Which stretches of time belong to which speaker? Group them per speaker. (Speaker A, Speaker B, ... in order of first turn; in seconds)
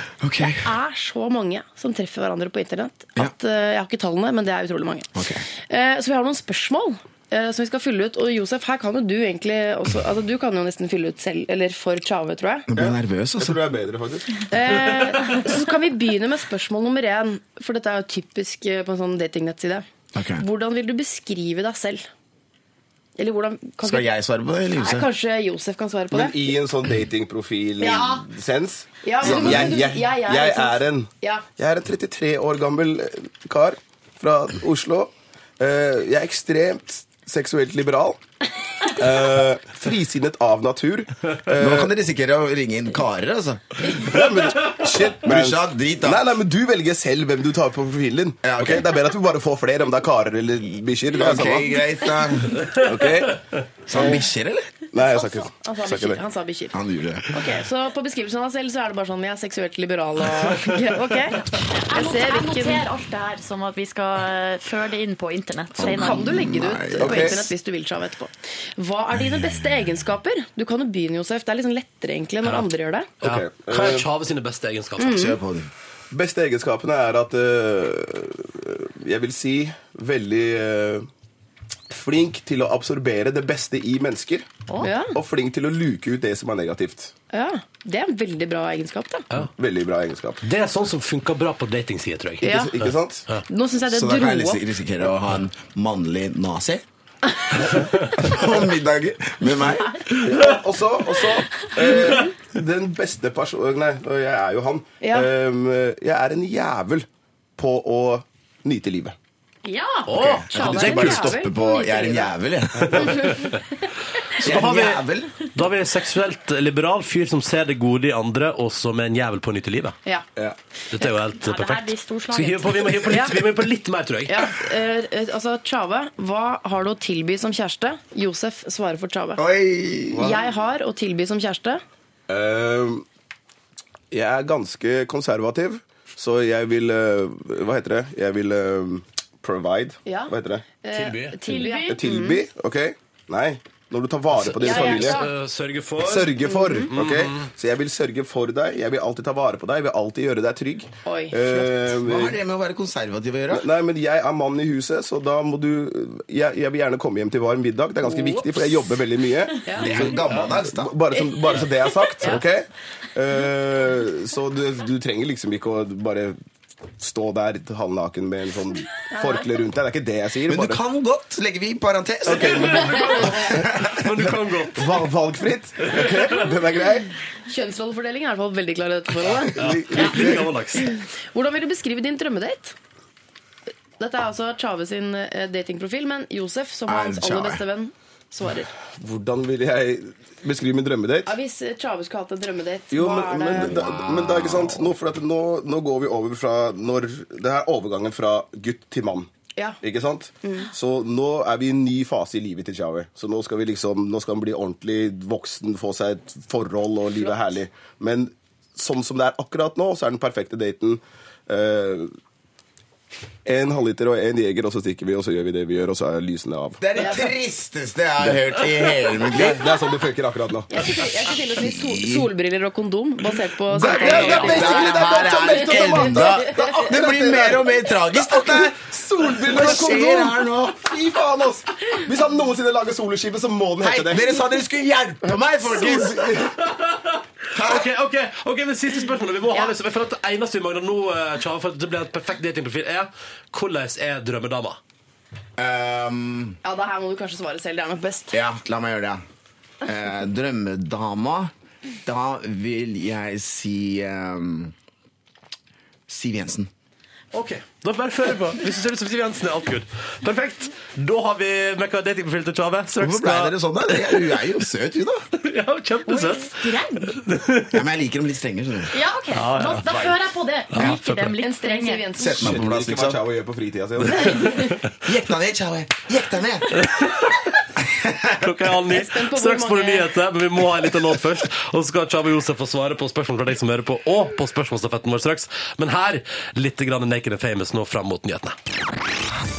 Speaker A: 0.2-0.7, 5.1-5.4, 12.7-13.6, 20.1-20.4, 23.8-25.1, 29.2-29.8, 41.5-43.6, 45.1-46.3, 48.4-49.0, 51.2-52.7, 53.9-54.9, 56.7-57.3, 65.8-67.5, 75.1-75.7, 93.9-96.8, 98.2-100.4, 110.2-113.2, 114.4-115.4, 129.4-130.3, 152.1-153.7, 159.8-160.9, 170.5-174.0, 186.9-187.6, 193.6-194.9, 216.8-219.6, 221.6-222.3, 223.7-230.9, 233.8-236.5, 237.5-237.9, 245.6-246.6, 248.3-249.2, 249.8-251.5, 252.1-254.7, 256.1-256.7, 263.0-265.2, 267.7-268.9, 272.2-273.2, 275.0-276.9, 277.8-278.5
Speaker B: 0.5-12.7, 14.4-19.9, 20.4-22.1, 23.2-24.1, 24.8-26.4, 27.8-28.1, 29.0-31.4, 55.0-56.7, 57.3-62.8, 65.8-73.1, 75.0-75.4, 84.8-85.2, 87.3-89.3, 92.4-92.9, 93.5-94.6, 101.9-102.2, 105.0-105.3, 110.5-112.3, 113.1-113.5, 123.0-123.4, 124.3-129.4, 130.1-131.8, 140.1-142.4, 144.5-145.3, 146.4-146.9, 151.1-151.9, 159.6-159.9, 169.1-169.5, 172.5-173.5, 177.4-182.7, 184.0-188.7, 191.3-193.8, 199.6-199.8, 200.4-200.7, 217.0-217.3, 220.7-226.8, 246.6-248.4, 271.4-272.5, 274.3-274.6, 278.9-280.1
Speaker C: 12.8-14.9, 26.1-38.2, 38.9-41.9, 43.9-51.8, 52.6-54.2, 54.9-56.2, 67.0-67.4, 73.2-74.1, 76.1-81.1, 81.9-84.5, 85.1-87.1, 89.4-90.4, 92.5-93.3, 100.2-109.1, 130.1-130.4, 132.3-133.1, 134.1-140.7, 141.9-145.2, 146.0-152.4, 153.5-166.4, 167.0-170.8, 172.3-173.6, 174.2-177.1, 179.5-180.5, 188.9-191.4, 192.9-199.3, 199.8-212.1, 213.4-217.1, 218.2-220.7, 223.8-234.3, 235.8-236.4, 272.4-274.6
Speaker D: 27.8-28.2, 61.7-66.3, 84.7-84.9, 109.6-110.4, 121.3-123.0, 141.5-142.0, 266.1-267.2, 268.9-272.1
Speaker E: 72.4-72.7, 73.2-75.2, 90.4-92.5, 110.0-111.4, 112.9-113.6, 114.4-120.0, 120.9-124.5, 140.9-141.4, 144.3-147.5, 159.8-160.4, 172.3-175.0, 179.6-180.9, 236.4-244.8, 257.3-264.4, 265.4-267.8, 269.4-270.2, 270.7-271.4, 274.0-274.9, 276.8-277.5, 278.4-288.6